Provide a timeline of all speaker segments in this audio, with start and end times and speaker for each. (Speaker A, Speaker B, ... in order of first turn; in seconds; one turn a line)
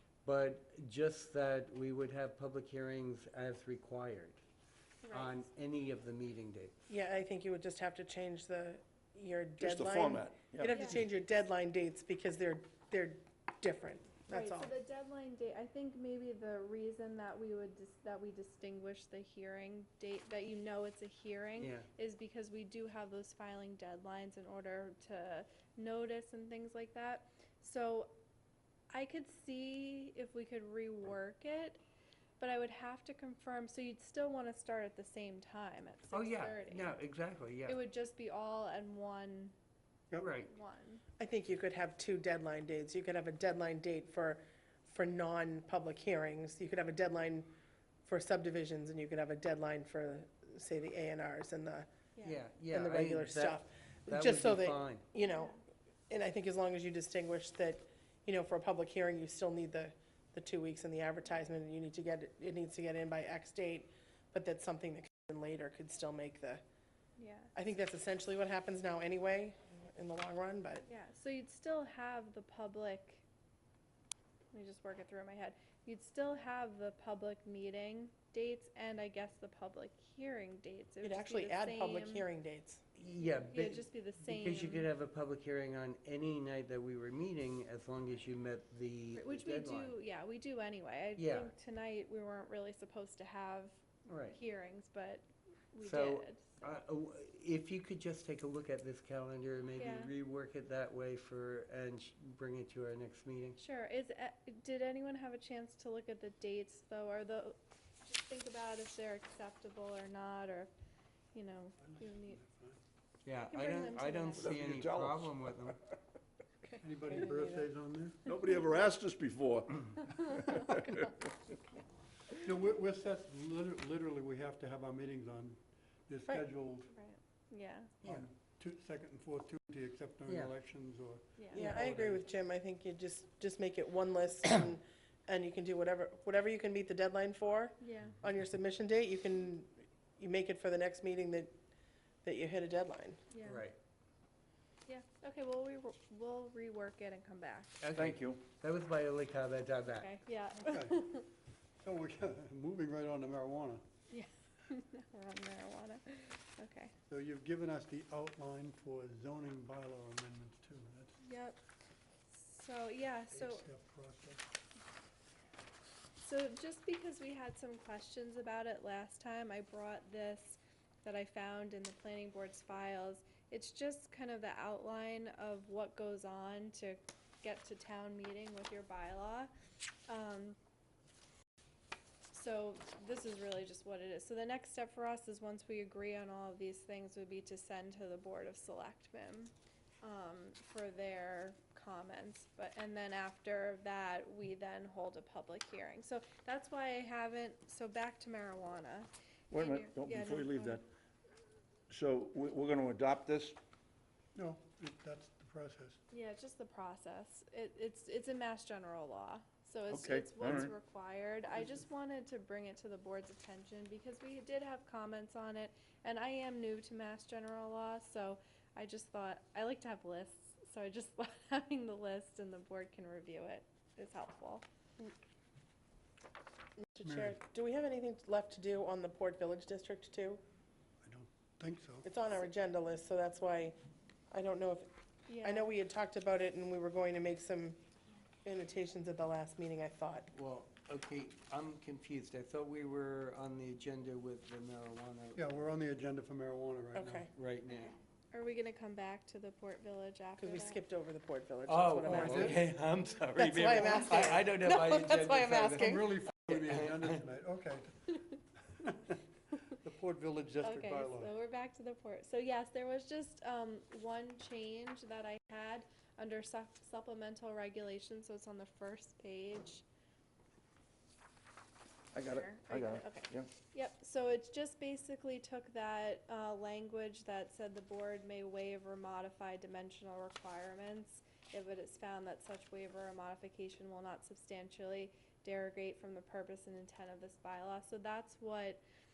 Speaker A: 0.2-4.4
Speaker B: 5.0-5.4
Speaker A: 5.1-6.7
Speaker C: 6.9-14.7
Speaker D: 9.6-10.9
Speaker B: 10.7-11.0
Speaker B: 14.3-28.1
Speaker A: 21.6-21.9
Speaker B: 28.9-31.8
Speaker B: 32.4-37.0
Speaker A: 36.1-37.8
Speaker B: 37.7-39.5
Speaker A: 40.2-40.5
Speaker B: 40.5-41.0
Speaker C: 41.2-47.5
Speaker C: 48.0-51.9
Speaker A: 52.2-55.0
Speaker C: 52.7-66.6
Speaker B: 55.2-55.6
Speaker B: 67.2-67.5
Speaker C: 67.5-70.8
Speaker B: 70.8-73.2
Speaker B: 74.5-82.3
Speaker C: 81.0-82.8
Speaker A: 83.0-89.9
Speaker B: 83.5-84.9
Speaker B: 89.2-96.7
Speaker A: 91.2-91.5
Speaker A: 94.0-94.4
Speaker A: 95.8-103.6
Speaker B: 99.8-100.1
Speaker B: 103.6-110.7
Speaker B: 111.3-112.4
Speaker E: 111.8-112.8
Speaker A: 113.2-115.8
Speaker B: 113.4-114.6
Speaker D: 114.4-115.7
Speaker E: 116.8-118.3
Speaker C: 117.3-117.6
Speaker D: 118.2-121.1
Speaker B: 120.5-121.1
Speaker E: 122.3-126.9
Speaker B: 126.9-127.9
Speaker A: 128.0-128.3
Speaker E: 128.0-132.2
Speaker A: 130.3-130.5
Speaker B: 131.4-131.6
Speaker C: 131.5-141.5
Speaker B: 137.8-138.1
Speaker C: 142.2-143.2
Speaker B: 143.3-143.6
Speaker A: 143.4-143.8
Speaker B: 144.9-147.8
Speaker A: 147.8-150.1
Speaker D: 148.0-148.4
Speaker B: 149.9-151.3
Speaker E: 150.7-151.1
Speaker E: 151.8-153.8
Speaker B: 154.1-156.9
Speaker E: 157.1-161.2
Speaker B: 161.2-161.6
Speaker B: 162.3-163.7
Speaker E: 163.3-164.4
Speaker B: 166.2-179.5
Speaker B: 180.1-180.6
Speaker B: 182.3-200.8
Speaker D: 199.5-200.8
Speaker D: 201.9-203.6
Speaker E: 204.3-206.0
Speaker B: 206.1-224.7
Speaker D: 209.9-210.7
Speaker C: 226.9-230.4
Speaker E: 227.0-227.4
Speaker E: 231.0-232.1
Speaker C: 232.1-233.8
Speaker C: 234.3-234.9
Speaker B: 235.3-235.7
Speaker C: 235.4-237.8
Speaker C: 238.4-240.3
Speaker A: 240.3-245.4
Speaker E: 245.3-247.2
Speaker C: 246.9-247.3
Speaker A: 247.3-248.0
Speaker B: 248.3-250.8
Speaker C: 250.4-252.7
Speaker A: 251.7-257.2
Speaker E: 252.1-252.6
Speaker C: 253.4-256.0
Speaker E: 255.6-258.2
Speaker E: 258.7-261.3
Speaker B: 260.6-269.8
Speaker D: 272.1-273.5
Speaker B: 272.1-288.8